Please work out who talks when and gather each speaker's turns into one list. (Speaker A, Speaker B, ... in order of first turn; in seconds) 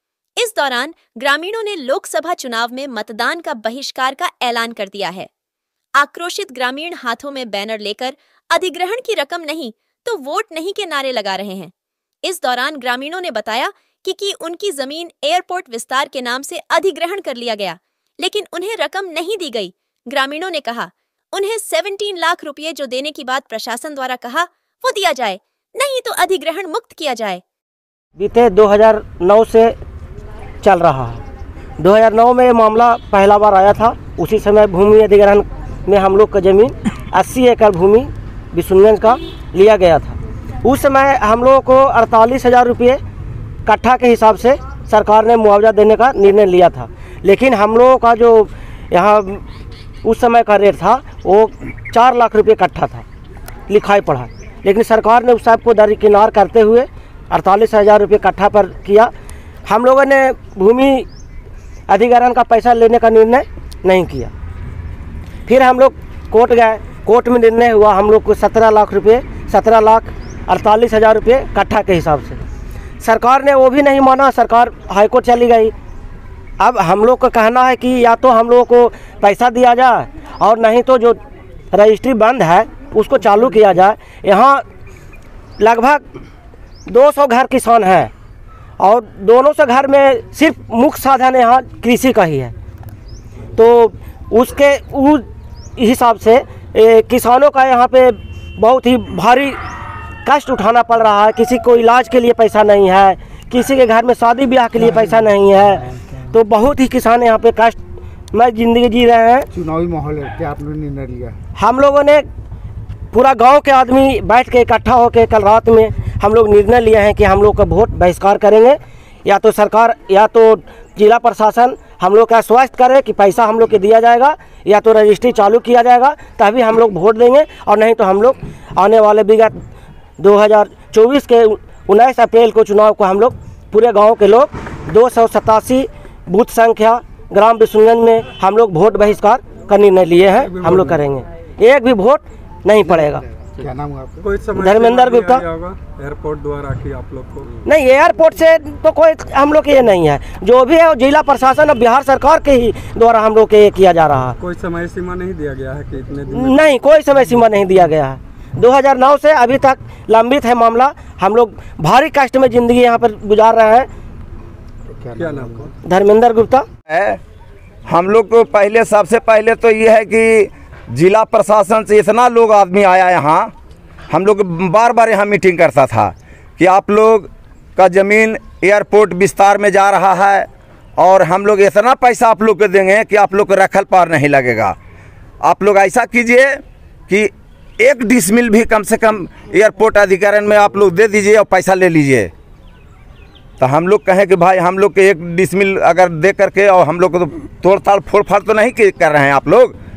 Speaker A: 0.4-5.3, 6.0-11.7, 12.2-27.4
Speaker B: 28.2-29.7, 30.6-31.2, 31.8-43.0, 43.6-49.4, 50.0-53.0, 53.7-59.1, 59.6-61.0, 61.9-64.3, 65.5-72.4, 73.0-75.7, 76.6-81.2, 81.7-84.6, 85.6-86.0, 86.9-88.1, 88.8-92.5, 93.5-95.2, 95.8-99.6, 100.2-107.8, 108.3-109.5, 111.6-112.2, 113.1-129.5, 130.2-143.2, 144.6-145.4, 147.6-154.4, 156.3-163.9, 165.8-166.7
Speaker C: 109.5-111.4, 143.1-144.2, 164.9-165.7
Speaker D: 140.3-141.0, 144.2-147.5, 154.4-156.8, 165.1-165.7
Speaker E: 166.9-167.2, 167.9-173.5, 174.1-184.8, 185.4-192.3, 193.6-199.7